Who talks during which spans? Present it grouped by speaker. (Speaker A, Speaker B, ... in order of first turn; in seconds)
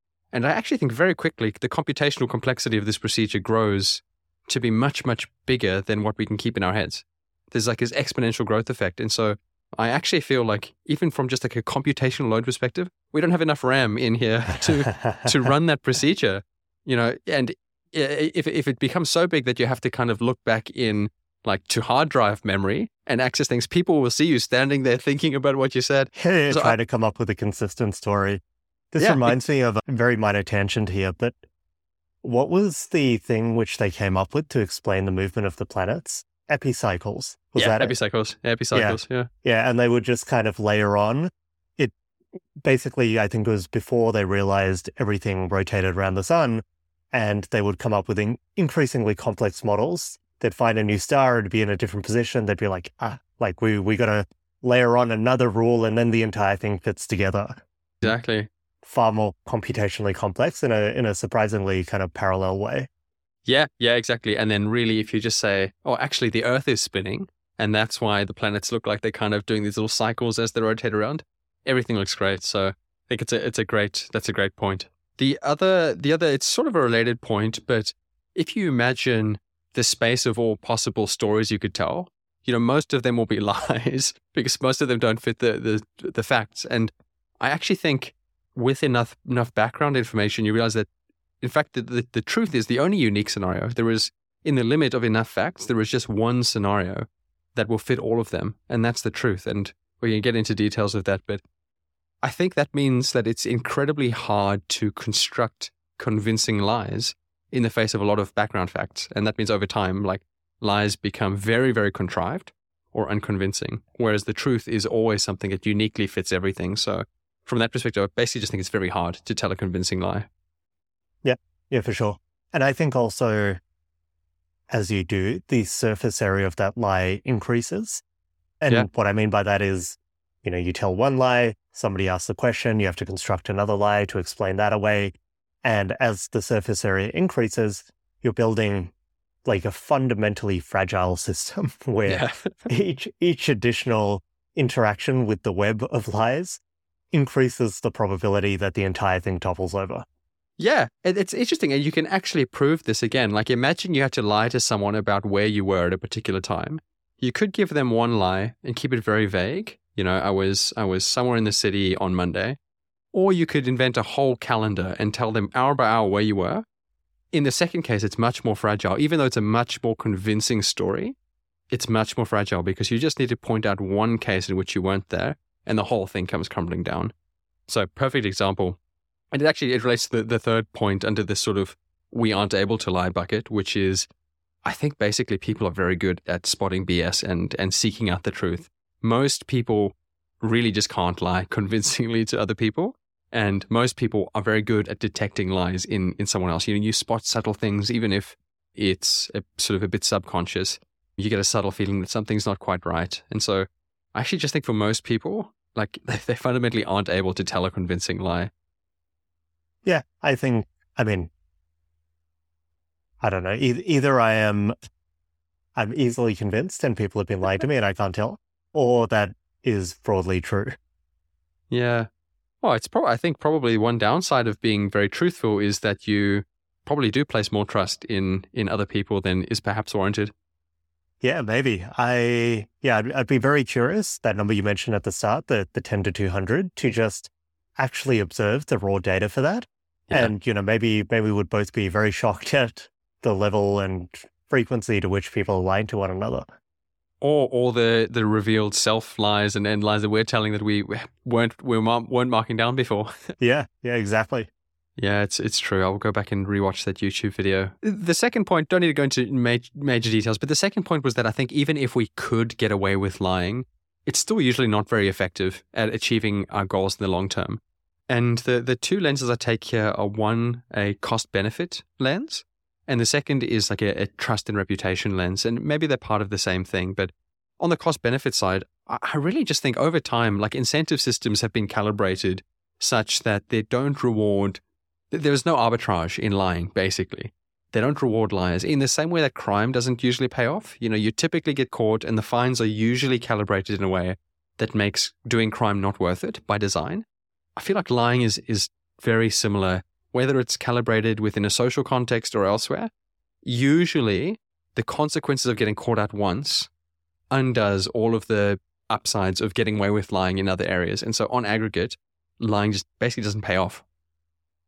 Speaker A: 0.3-26.8, 29.0-29.4, 37.6-39.3, 58.0-58.5, 63.5-90.9, 91.4-101.4, 102.2-120.3, 142.1-142.5, 150.6-162.6, 163.1-166.6, 167.3-171.2, 171.7-177.1, 177.7-178.8, 179.3-184.1, 184.7-208.5, 221.7-222.1, 222.6-230.3, 247.2-253.3, 255.0-297.1, 297.6-302.9, 303.4-306.7, 307.3-313.8
Speaker B: 14.9-15.3, 26.1-28.4, 28.9-31.4, 32.2-37.9, 38.7-41.9, 42.6-58.1, 58.8-62.9, 121.2-123.6, 124.7-128.0, 128.6-138.9, 139.5-146.6, 147.1-150.1, 209.8-211.3, 213.2-214.8, 215.8-220.8, 231.2-246.5, 253.4-254.5